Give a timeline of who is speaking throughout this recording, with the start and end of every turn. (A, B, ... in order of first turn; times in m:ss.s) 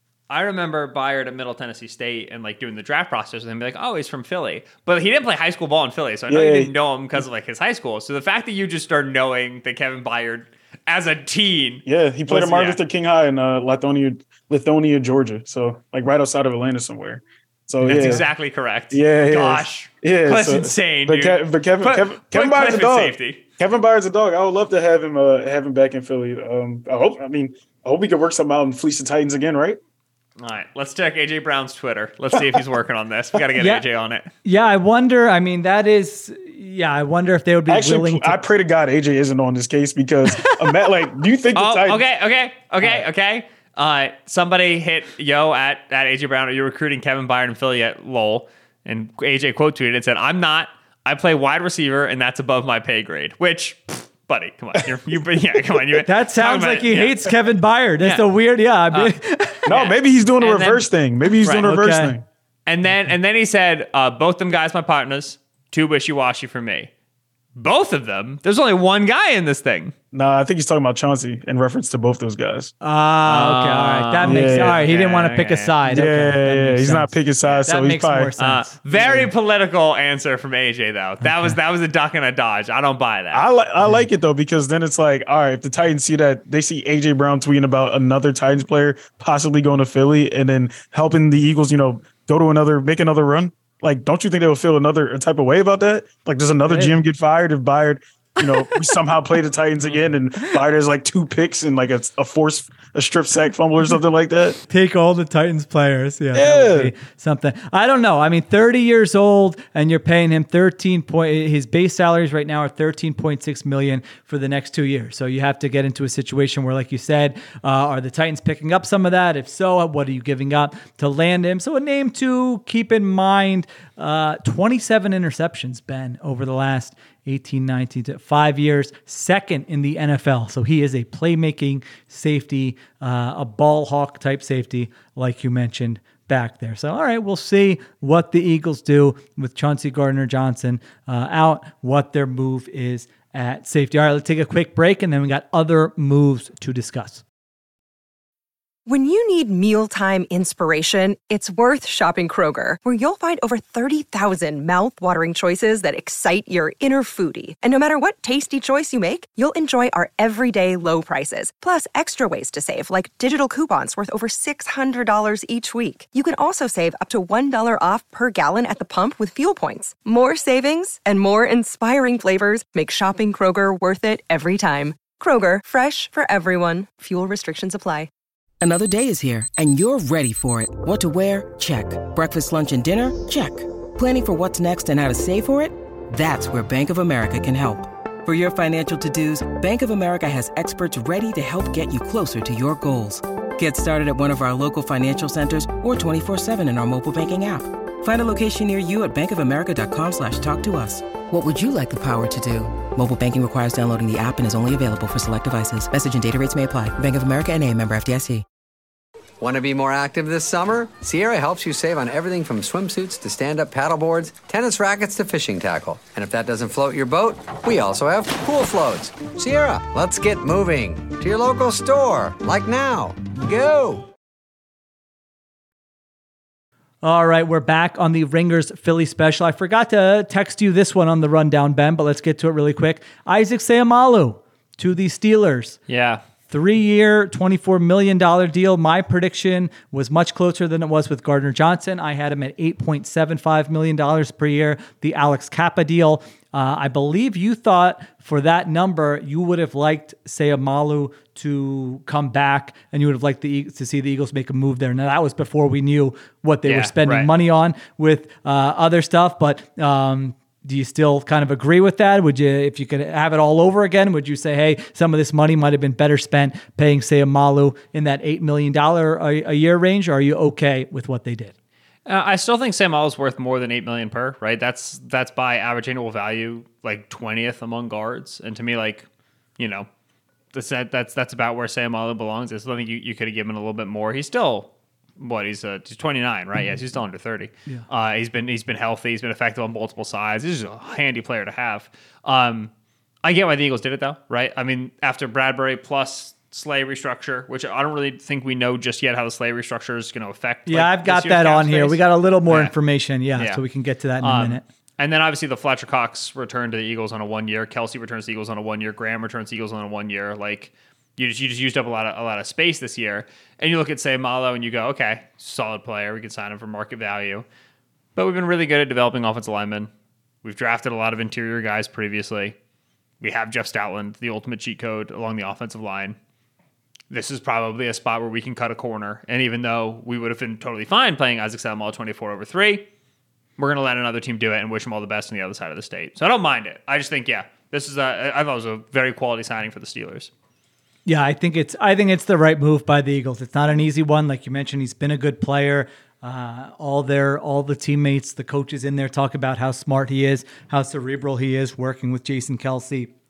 0:00.3-0:12.8 A
0:06.3-0:07.2 B
0:11.8-0:18.2 B
0:17.8-0:23.4 A
0:18.9-0:29.8 B
0:30.4-0:34.3 A
0:33.5-0:33.9 C
0:34.4-0:38.4 C
0:37.7-0:42.0 B
0:40.3-0:40.8 A
0:41.5-0:57.4 A
0:55.9-0:59.7 C
0:58.0-0:58.2 A
0:59.6-1:02.2 B
0:59.7-1:00.9 A
1:01.4-1:01.7 A
1:01.5-1:02.2 C
1:02.7-1:06.9 A
1:07.6-1:09.9 A
1:10.1-1:12.7 B
1:12.8-1:19.3 C
1:13.2-1:15.7 A
1:14.2-1:14.8 B
1:15.8-1:18.3 B
1:18.4-1:23.4 A
1:18.9-1:19.2 B
1:21.2-1:21.5 C
1:23.3-1:44.6 B
1:36.6-1:37.0 C
1:38.4-1:39.0 C
1:44.6-2:27.2 C
1:46.3-1:46.9 B
2:28.8-2:58.1 D
2:58.6-3:28.4 E
3:29.4-3:44.1 F
3:47.0-3:55.8 C
3:55.9-3:56.2 A
3:56.5-4:31.5 C
4:16.6-4:17.3 A
4:32.0-4:39.1 A
4:39.6-4:39.9 A
4:40.5-4:52.7 A
4:53.2-5:02.7 A
5:00.7-5:04.6 C
5:03.4-5:03.6 A
5:04.2-5:17.4 A
5:18.2-5:19.9 A
5:20.4-5:22.6 A
5:23.2-5:26.2 A
5:27.1-5:32.9 A
5:33.6-5:40.3 A
5:41.0-5:53.1 C